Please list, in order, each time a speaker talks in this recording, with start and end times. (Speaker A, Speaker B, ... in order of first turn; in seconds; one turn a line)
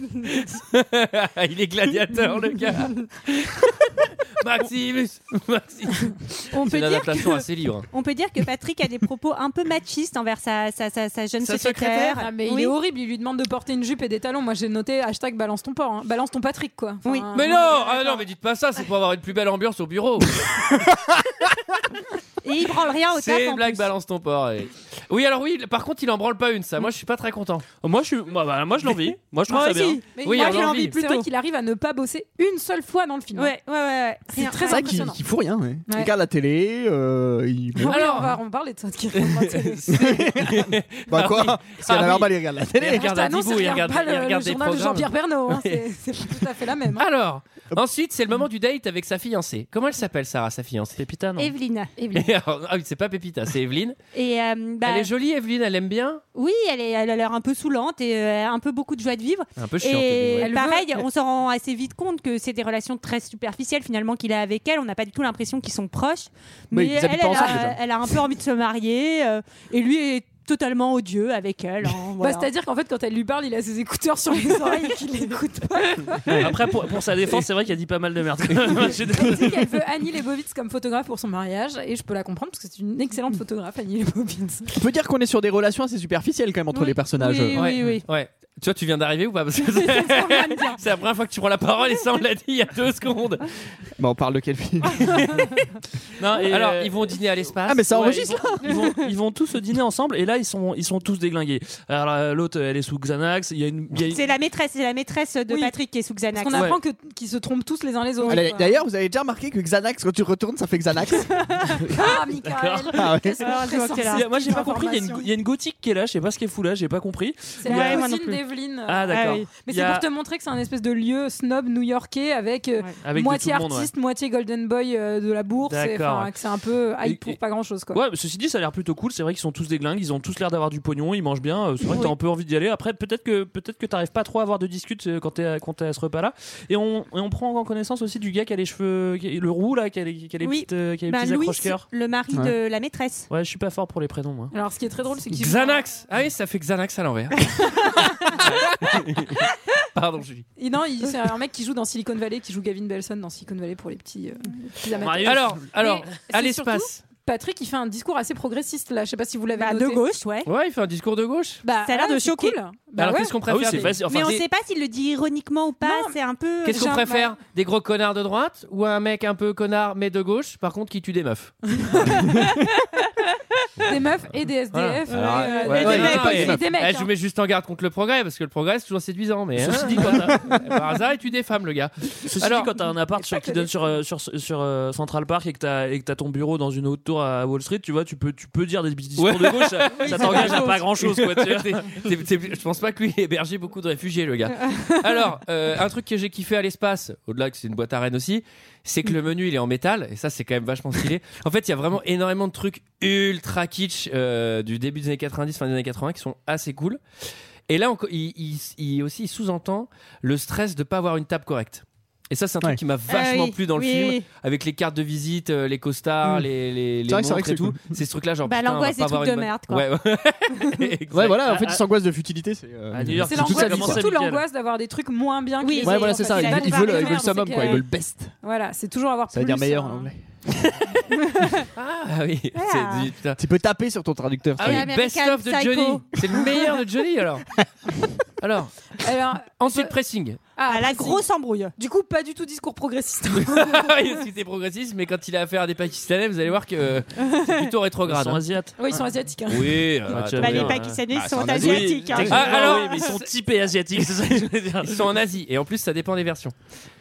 Speaker A: 0.2-7.9
Speaker B: 6.5-12.7
Speaker A: 11.4-12.1
Speaker C: 12.1-18.2
Speaker B: 17.1-17.9
Speaker A: 17.3-20.5
Speaker B: 22.4-23.9
Speaker A: 23.1-27.7
Speaker D: 27.8-30.0
Speaker B: 29.5-31.3
Speaker C: 30.2-33.5
Speaker A: 30.2-31.0
Speaker B: 33.4-35.0
Speaker C: 34.3-35.2
Speaker E: 34.6-38.0
Speaker C: 37.8-40.0
Speaker A: 37.9-38.4
Speaker A: 39.1-45.8
Speaker E: 39.9-43.1
Speaker C: 42.8-47.0
Speaker A: 47.0-51.0
Speaker D: 51.0-51.5
Speaker B: 51.4-51.9
Speaker C: 52.0-52.3
Speaker A: 52.1-54.0
Speaker B: 54.1-55.1
Speaker A: 54.9-56.2
Speaker B: 56.4-72.5
Speaker A: 59.6-60.5
Speaker C: 60.4-61.0
Speaker E: 66.7-67.8
Speaker C: 67.3-67.6
Speaker C: 72.2-76.5
Speaker D: 76.3-79.7
Speaker C: 79.1-84.7
Speaker E: 84.8-87.7
Speaker B: 86.7-88.1
Speaker A: 87.5-93.5
Speaker C: 89.8-90.8
Speaker E: 94.0-95.4
Speaker D: 96.2-97.1
Speaker A: 96.4-98.5
Speaker E: 97.7-98.8
Speaker D: 98.2-104.2
Speaker B: 104.1-106.8
Speaker C: 105.5-105.8
Speaker C: 106.3-108.7
Speaker D: 106.5-106.8
Speaker E: 108.3-111.8
Speaker C: 111.9-115.3
Speaker D: 112.0-113.1
Speaker E: 112.9-113.4
Speaker B: 113.4-114.6
Speaker D: 114.1-118.1
Speaker C: 117.6-128.0
Speaker B: 117.7-118.4
Speaker D: 118.9-120.1
Speaker B: 119.1-119.5
Speaker D: 123.0-123.9
Speaker D: 125.7-126.3
Speaker D: 127.0-127.4
Speaker D: 127.9-141.8
Speaker B: 140.4-143.3
Speaker D: 143.3-144.5
Speaker C: 144.5-145.8
Speaker A: 145.3-147.5
Speaker A: 148.3-149.4
Speaker A: 149.9-150.5
Speaker C: 150.6-160.0
Speaker D: 155.0-155.6
Speaker A: 155.2-157.0
Speaker B: 159.5-160.5
Speaker A: 160.4-161.6
Speaker C: 161.7-163.3
Speaker B: 161.7-162.6
Speaker A: 163.0-164.0
Speaker D: 163.5-164.4
Speaker B: 164.1-167.2
Speaker C: 165.8-166.2
Speaker A: 166.6-172.2
Speaker C: 171.9-172.2
Speaker C: 173.9-177.1
Speaker A: 174.7-175.0
Speaker E: 175.1-176.6
Speaker B: 175.1-176.5
Speaker A: 175.6-182.7
Speaker D: 179.6-180.6
Speaker D: 182.3-191.9
Speaker C: 183.2-183.9
Speaker A: 189.2-207.0
Speaker A: 207.7-221.6
Speaker B: 213.1-214.3
Speaker E: 216.2-216.5
Speaker E: 217.1-218.0
Speaker B: 218.4-219.9
Speaker E: 221.1-224.0
Speaker D: 221.4-221.8
Speaker D: 222.9-224.4
Speaker C: 223.2-227.8
Speaker B: 225.6-227.8
Speaker E: 225.8-228.3
Speaker C: 228.4-230.1
Speaker E: 229.3-230.2
Speaker A: 231.8-233.4
Speaker B: 232.5-233.1
Speaker E: 233.4-234.9
Speaker A: 234.6-237.5
Speaker B: 234.6-236.5
Speaker A: 238.4-238.8
Speaker C: 239.0-239.9
Speaker A: 239.6-240.4
Speaker C: 240.6-241.2
Speaker B: 240.7-241.7
Speaker C: 241.8-244.0
Speaker A: 243.4-248.4
Speaker B: 247.2-247.6
Speaker D: 248.1-248.8
Speaker C: 248.8-250.0
Speaker A: 249.5-253.3
Speaker D: 250.1-255.1
Speaker B: 250.4-252.9
Speaker E: 251.2-252.4
Speaker A: 254.8-256.5